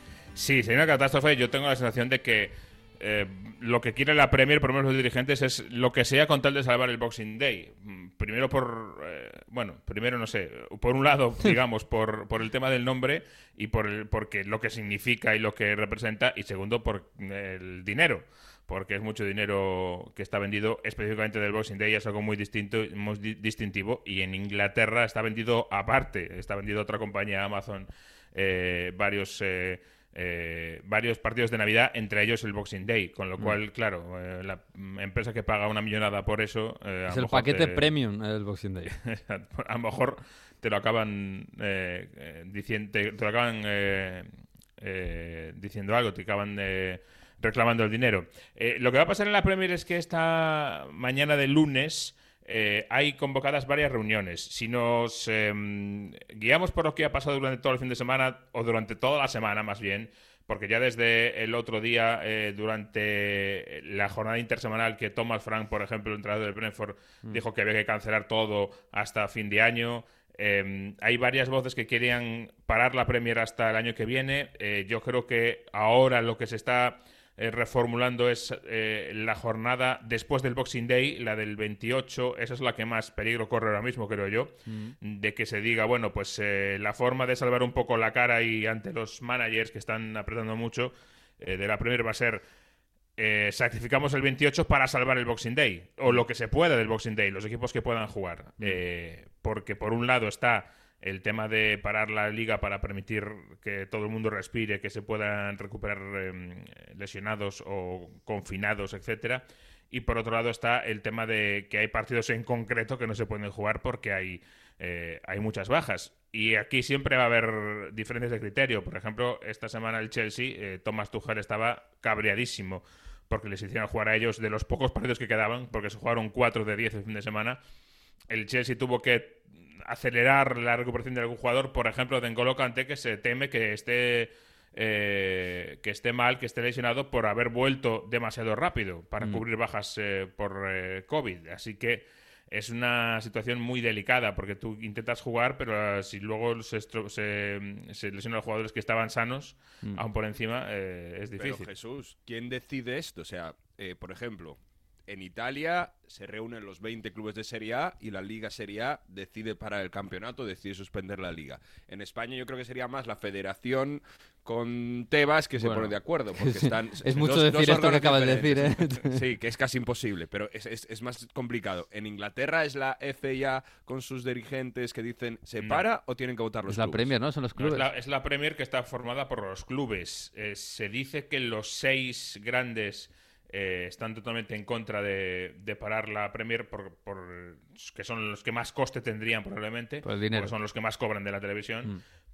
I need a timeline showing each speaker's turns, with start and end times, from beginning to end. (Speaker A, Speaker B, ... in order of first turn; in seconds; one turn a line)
Speaker A: 0.3-37.9
Speaker B: 37.1-38.9
Speaker A: 38.9-92.4
Speaker B: 84.7-84.9
Speaker A: 93.2-127.6
Speaker A: 128.3-151.7
Speaker C: 151.4-177.1
Speaker B: 165.6-169.2
Speaker A: 175.6-175.8
Speaker B: 176.7-177.9
Speaker A: 177.6-191.9
Speaker B: 190.0-190.5